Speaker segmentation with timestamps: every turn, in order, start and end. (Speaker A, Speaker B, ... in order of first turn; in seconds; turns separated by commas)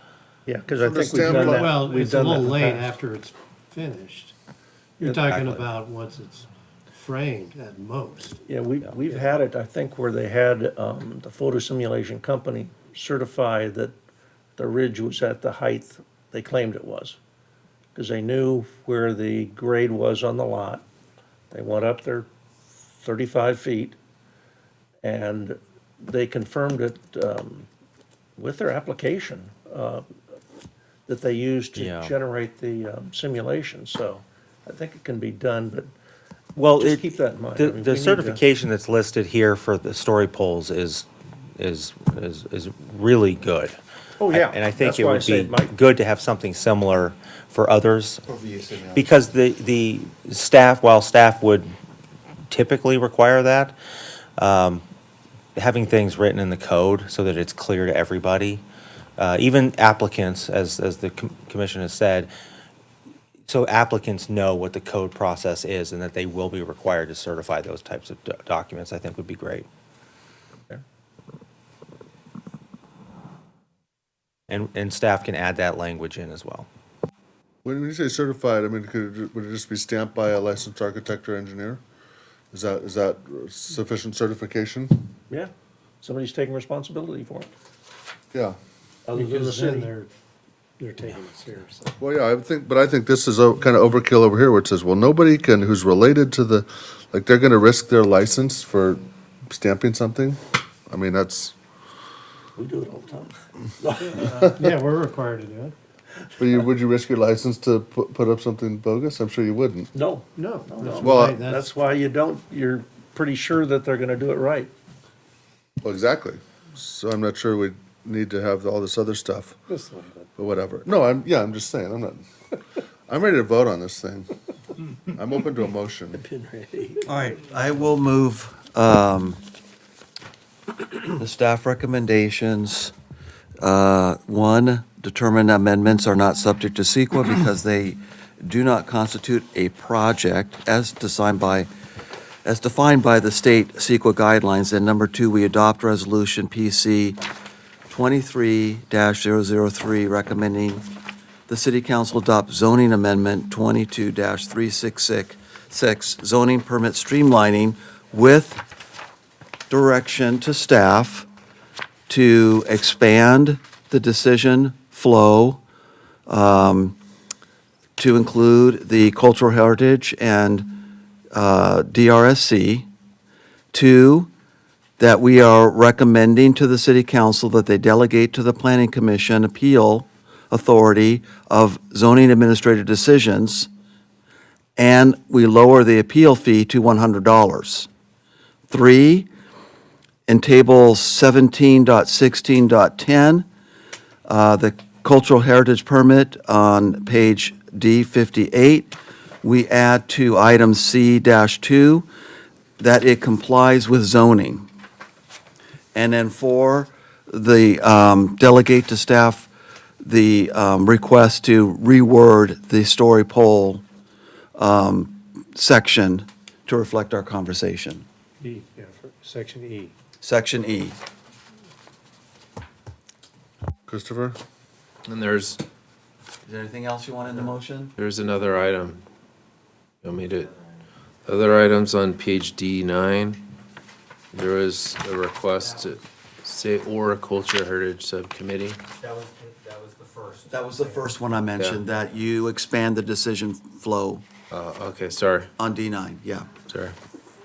Speaker A: 0.5-2.9, Speaker B: 0.8-1.8, Speaker C: 1.3-4.3, Speaker C: 5.0-8.4, Speaker D: 5.2-5.7, Speaker A: 8.4-14.0, Speaker A: 14.6-17.2, Speaker A: 17.9-20.8, Speaker A: 21.5-22.3, Speaker A: 23.0-24.0, Speaker A: 25.0-27.7, Speaker A: 28.4-30.1, Speaker A: 31.1-35.9, Speaker D: 31.8-32.1, Speaker D: 36.5-41.1, Speaker A: 36.7-38.4, Speaker D: 41.6-43.8, Speaker A: 44.2-45.7, Speaker D: 44.3-48.2, Speaker E: 48.2-49.1, Speaker D: 49.0-51.7, Speaker D: 52.5-53.8, Speaker D: 54.4-54.8, Speaker D: 55.5-58.6, Speaker D: 59.2-62.3, Speaker D: 63.5-69.7, Speaker D: 74.5-76.7, Speaker B: 77.6-81.8, Speaker B: 82.5-85.0, Speaker A: 85.3-87.5, Speaker A: 89.1-90.0, Speaker C: 89.2-90.1, Speaker C: 90.8-91.9, Speaker B: 92.0-101.5, Speaker A: 102.6-104.4, Speaker C: 104.5-105.8, Speaker B: 106.4-109.9, Speaker A: 109.9-114.7, Speaker C: 110.4-111.7, Speaker B: 111.0-111.4, Speaker B: 115.8-119.6, Speaker C: 119.7-120.3, Speaker B: 120.4-122.2, Speaker B: 123.1-124.3, Speaker B: 125.1-126.2, Speaker C: 126.2-127.1, Speaker E: 127.0-129.4, Speaker E: 131.1-132.9, Speaker E: 133.6-141.7, Speaker E: 142.4-147.2, Speaker E: 147.9-150.8, Speaker E: 151.5-158.6, Speaker E: 159.7-161.2, Speaker E: 162.1-165.6, Speaker E: 166.3-167.0, Speaker E: 168.0-172.9, Speaker E: 173.7-174.3, Speaker E: 175.0-183.7, Speaker E: 184.8-187.9, Speaker E: 188.7-189.3, Speaker E: 190.3-193.5, Speaker E: 194.3-202.1, Speaker E: 202.8-204.7, Speaker E: 205.9-209.5, Speaker E: 210.0-213.8, Speaker E: 214.6-218.1, Speaker C: 218.4-219.9, Speaker E: 220.2-221.0, Speaker B: 223.9-224.4, Speaker F: 225.0-225.6, Speaker E: 226.4-227.9, Speaker F: 228.0-229.0, Speaker F: 230.0-230.6, Speaker F: 231.2-233.5, Speaker F: 234.3-238.8, Speaker D: 239.0-241.1, Speaker E: 240.5-244.2, Speaker F: 241.6-241.8, Speaker F: 244.5-245.5, Speaker E: 245.6-246.6, Speaker F: 246.6-247.0